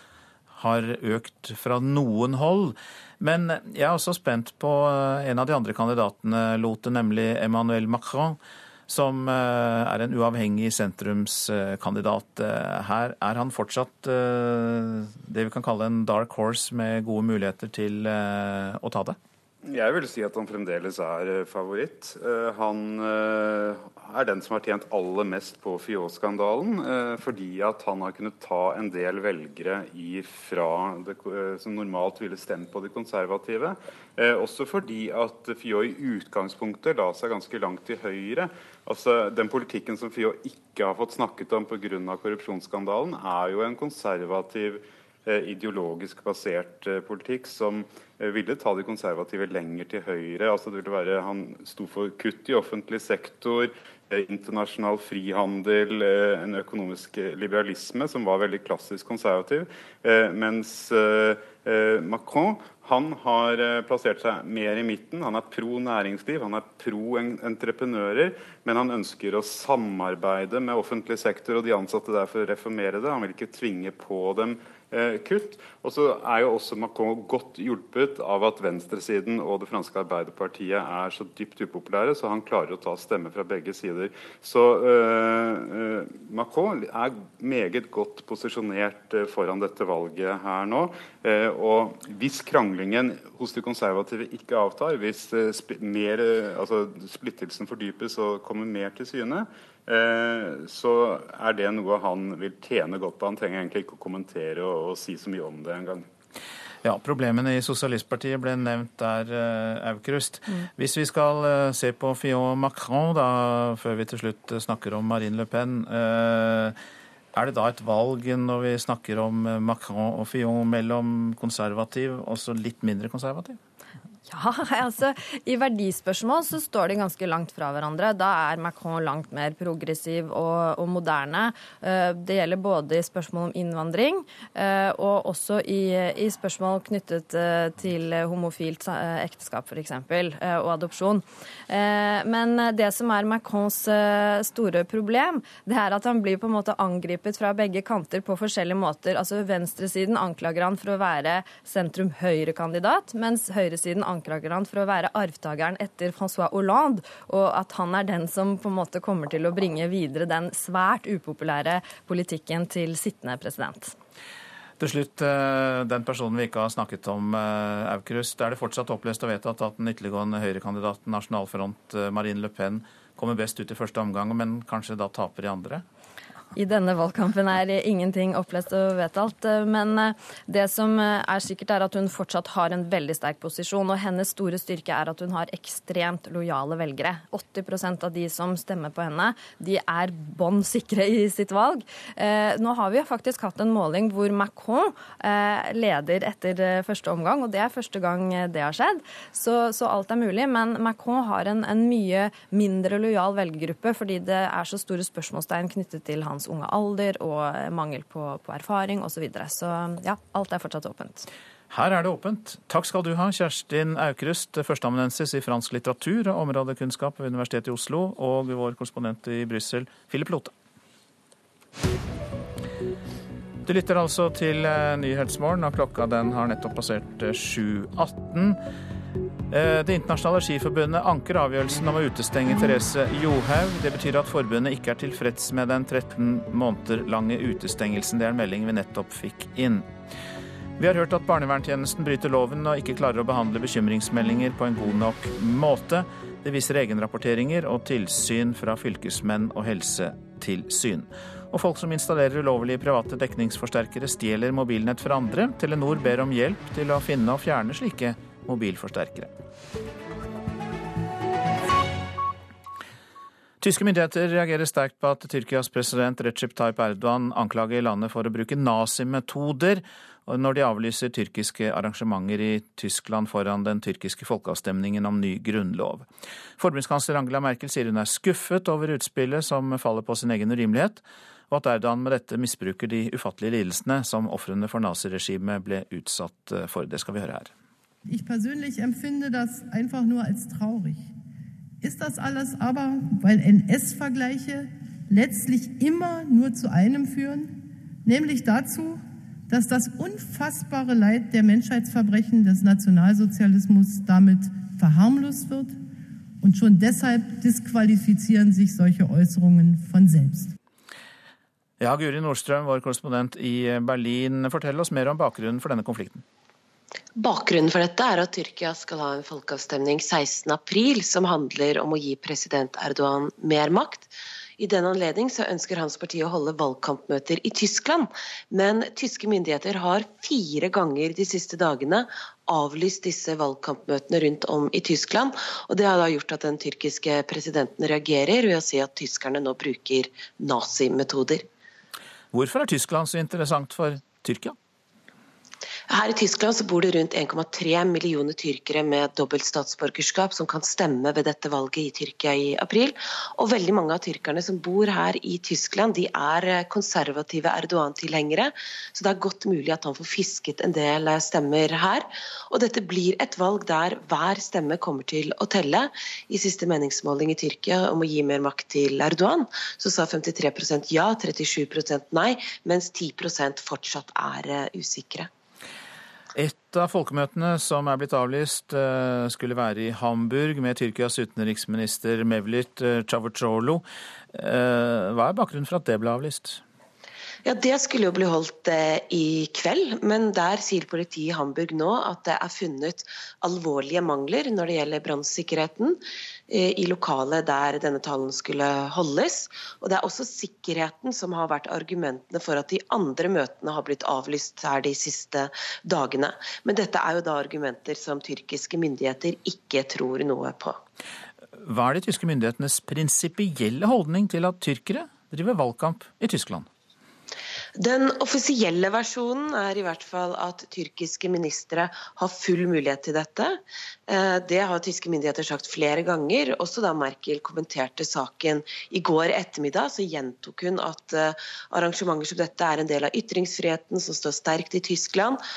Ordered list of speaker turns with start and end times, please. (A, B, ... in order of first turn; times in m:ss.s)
0:00.5-0:19.2 A
0:19.6-1:46.1 B
1:46.8-1:56.8 A
1:57.4-2:03.6 A
2:04.3-2:44.0 C
2:44.8-2:55.8 A
2:56.6-3:31.3 C
3:31.7-3:40.5 A
3:43.7-3:48.6 A
3:49.5-3:59.9 A
4:00.8-4:19.3 A
4:23.6-4:36.1 A
4:36.6-4:47.5 A
4:48.1-4:51.1 D
4:51.8-5:05.8 D
5:06.4-5:10.5 D
5:11.8-5:16.2 A
5:17.2-5:41.4 E
5:42.3-5:44.6 A
5:45.9-6:15.3 E
6:16.4-6:26.6 A
6:27.4-6:50.8 E
6:51.6-6:56.7 A
6:57.8-7:15.4 E